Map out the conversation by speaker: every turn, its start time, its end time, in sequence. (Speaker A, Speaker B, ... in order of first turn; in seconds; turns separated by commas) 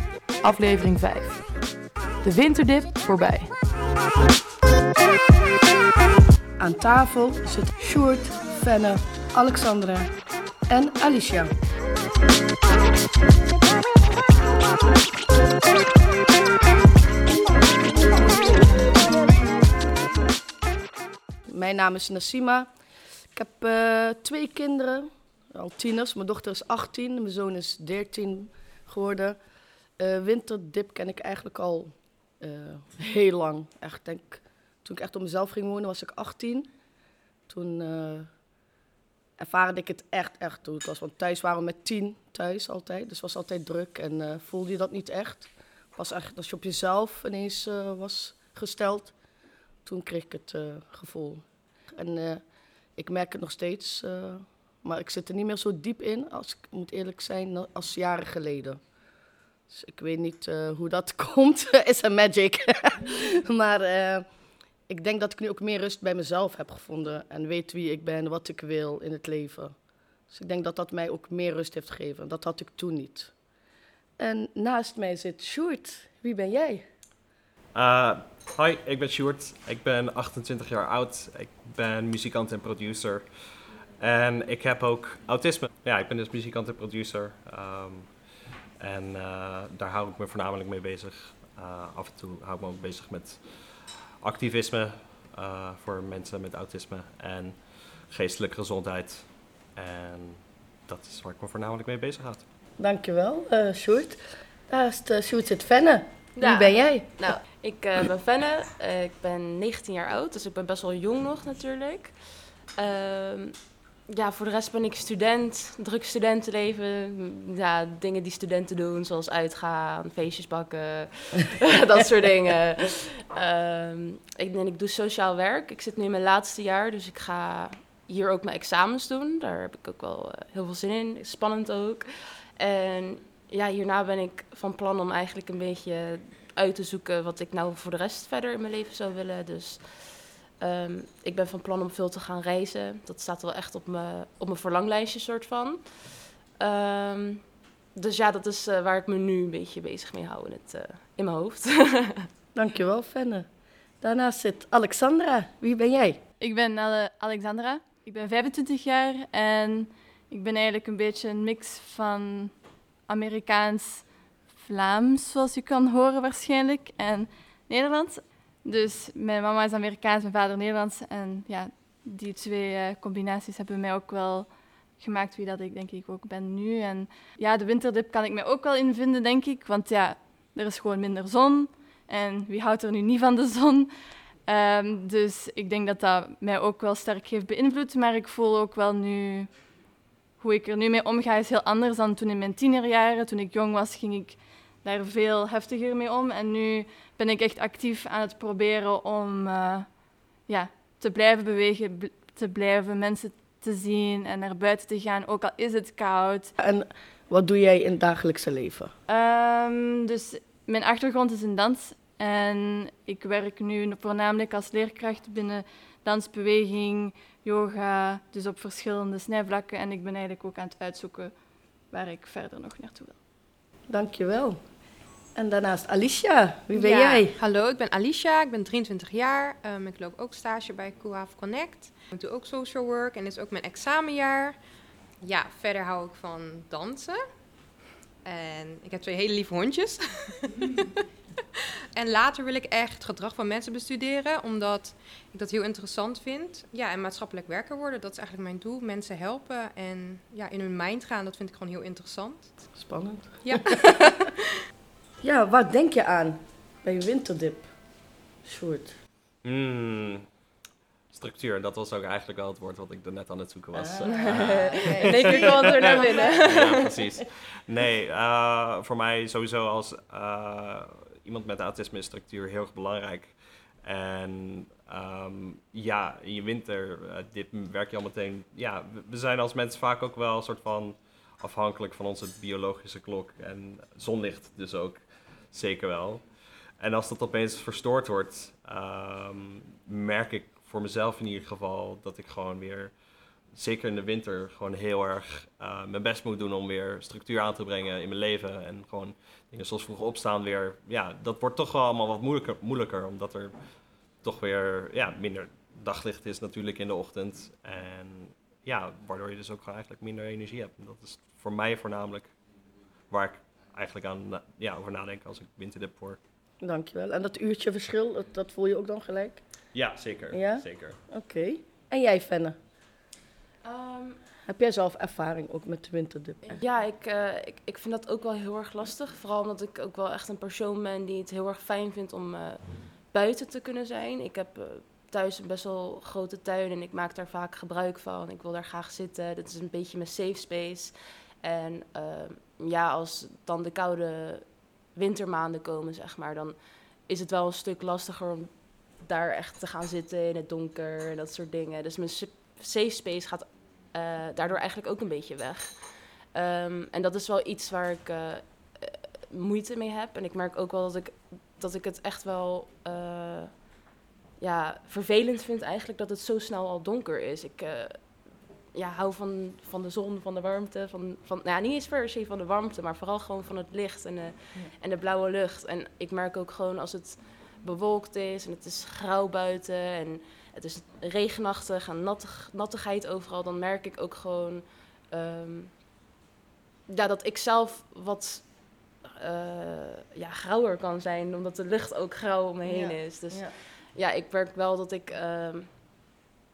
Speaker A: 0.4-1.5, Speaker A: 2.2-3.5, Speaker B: 6.6-10.1, Speaker B: 10.7-11.5, Speaker B: 21.5-22.7, Speaker B: 23.3-29.4, Speaker B: 30.0-36.7, Speaker B: 37.5-38.3, Speaker B: 39.4-49.1, Speaker B: 49.9-52.4, Speaker B: 53.0-58.8, Speaker B: 59.7-64.2, Speaker B: 64.9-69.8, Speaker B: 70.3-73.3, Speaker B: 74.2-76.8, Speaker C: 77.8-83.3, Speaker C: 84.0-88.1, Speaker C: 88.8-97.6, Speaker C: 98.1-102.4, Speaker B: 102.8-107.1, Speaker D: 106.4-152.3, Speaker B: 152.6-153.5, Speaker B: 154.0-156.2, Speaker E: 156.4-162.5, Speaker E: 163.1-183.9, Speaker E: 184.5-189.5, Speaker E: 190.4-206.5, Speaker B: 206.6-208.9, Speaker E: 209.1-221.4, Speaker E: 221.9-223.2, Speaker B: 223.9-224.6, Speaker B: 225.4-227.3, Speaker F: 226.7-234.6, Speaker F: 235.2-237.2, Speaker F: 238.2-240.9, Speaker F: 242.0-252.5, Speaker B: 252.8-253.9, Speaker F: 253.4-254.3, Speaker B: 255.2-257.7, Speaker B: 258.4-258.9, Speaker C: 259.4-260.3, Speaker C: 261.1-286.2, Speaker B: 263.8-266.8, Speaker D: 264.1-266.9, Speaker C: 286.8-292.9, Speaker C: 293.5-303.5, Speaker C: 304.2-312.3, Speaker C: 313.1-316.2, Speaker B: 316.6-319.4, Speaker C: 319.7-321.0, Speaker B: 320.3-322.6, Speaker D: 323.6-324.2, Speaker B: 324.4-326.6, Speaker D: 326.4-363.8, Speaker D: 364.4-385.7, Speaker D: 386.9-395.7, Speaker B: 392.6-393.6